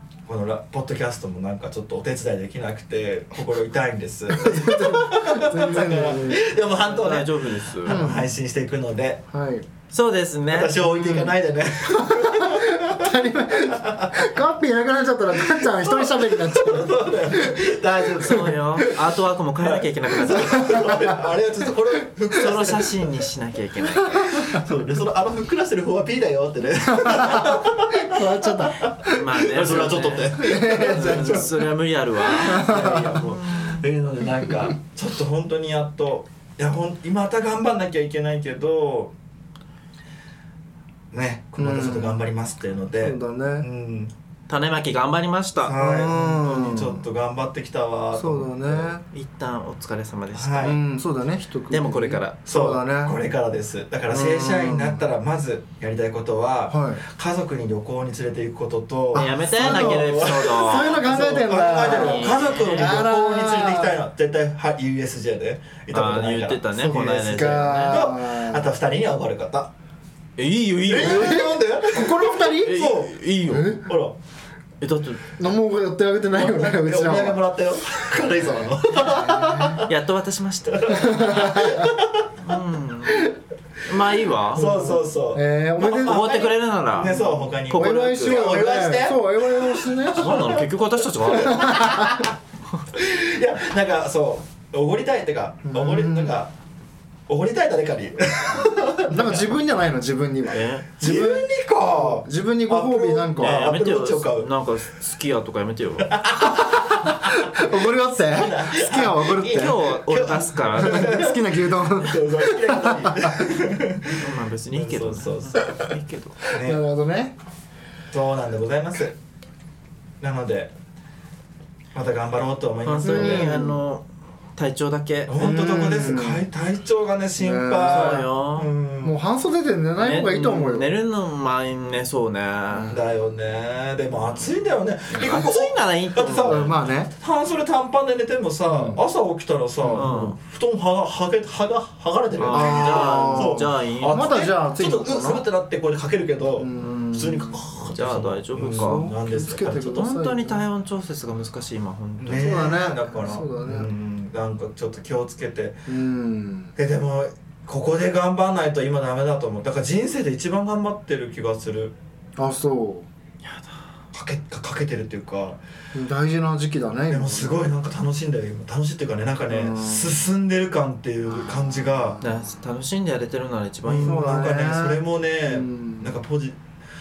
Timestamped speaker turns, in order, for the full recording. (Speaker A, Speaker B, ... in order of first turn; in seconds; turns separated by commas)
Speaker A: 0.3-9.2, Speaker B: 4.3-6.5, Speaker C: 6.8-8.0, Speaker B: 7.8-8.3, Speaker B: 9.3-9.7, Speaker C: 9.9-11.3, Speaker A: 10.5-14.3, Speaker B: 10.8-11.3, Speaker B: 11.9-19.0, Speaker A: 15.3-18.6, Speaker C: 18.2-20.9, Speaker A: 19.6-23.0, Speaker B: 20.3-21.0, Speaker C: 22.3-24.4, Speaker B: 24.1-24.6, Speaker A: 24.3-31.5, Speaker B: 26.9-31.7, Speaker C: 29.1-33.9, Speaker B: 32.2-33.2, Speaker A: 32.3-39.1, Speaker A: 41.1-44.1, Speaker B: 41.6-42.3, Speaker B: 43.0-43.7, Speaker C: 44.5-45.8, Speaker A: 45.6-48.9, Speaker B: 45.7-47.0, Speaker B: 48.1-49.0, Speaker C: 49.1-50.8, Speaker A: 50.3-50.8, Speaker B: 50.6-53.2, Speaker C: 51.7-52.4, Speaker A: 52.5-69.7, Speaker B: 54.1-55.1, Speaker B: 56.7-57.0, Speaker B: 59.1-64.0, Speaker C: 59.1-61.1, Speaker C: 61.8-62.9, Speaker C: 65.9-68.0, Speaker B: 66.7-68.7, Speaker C: 70.4-71.5, Speaker A: 70.8-73.2, Speaker B: 70.9-73.9, Speaker C: 72.6-73.8, Speaker A: 73.8-74.2, Speaker C: 74.8-75.3, Speaker B: 75.4-77.4, Speaker A: 76.3-79.9, Speaker B: 79.0-79.8, Speaker C: 79.8-81.6, Speaker A: 80.7-82.3, Speaker B: 80.9-81.9, Speaker C: 82.4-83.3, Speaker C: 83.8-84.6, Speaker B: 84.5-86.4, Speaker A: 84.5-90.7, Speaker C: 86.0-88.5, Speaker B: 87.0-90.5, Speaker C: 90.1-92.2, Speaker B: 91.3-92.2, Speaker A: 91.3-92.3, Speaker A: 92.9-96.5, Speaker B: 95.6-96.4, Speaker A: 97.3-99.4, Speaker B: 99.0-103.7, Speaker C: 100.5-100.9, Speaker A: 101.0-104.5, Speaker C: 103.4-106.2, Speaker A: 106.0-107.7, Speaker B: 107.2-109.9, Speaker A: 108.3-115.7, Speaker C: 109.4-111.1, Speaker B: 110.8-113.4, Speaker C: 114.1-116.4, Speaker A: 116.5-116.8, Speaker B: 116.5-117.3, Speaker A: 118.1-119.2, Speaker A: 120.2-120.7, Speaker A: 121.9-123.5, Speaker C: 122.8-124.0, Speaker B: 123.0-123.8, Speaker C: 124.5-125.3, Speaker A: 125.3-129.2, Speaker B: 125.4-126.5, Speaker B: 127.4-128.3, Speaker C: 127.8-128.7, Speaker B: 129.0-130.9, Speaker C: 130.0-132.9, Speaker B: 132.7-133.0, Speaker A: 132.9-149.9, Speaker C: 135.1-136.7, Speaker B: 136.4-137.1, Speaker B: 138.7-139.0, Speaker B: 139.8-140.1, Speaker C: 139.9-140.4, Speaker C: 142.4-144.3, Speaker B: 142.5-145.4, Speaker B: 146.6-147.6, Speaker C: 146.8-149.0, Speaker B: 148.6-150.6, Speaker C: 149.7-152.6, Speaker A: 152.2-155.8, Speaker B: 152.3-153.9, Speaker B: 155.9-156.7, Speaker A: 156.8-161.9, Speaker B: 162.4-163.1, Speaker C: 163.4-163.7, Speaker A: 164.1-165.6, Speaker B: 165.9-167.7, Speaker A: 167.1-172.2, Speaker B: 169.5-170.3, Speaker B: 171.4-172.5, Speaker C: 172.2-174.3, Speaker A: 173.8-176.6, Speaker B: 173.9-176.2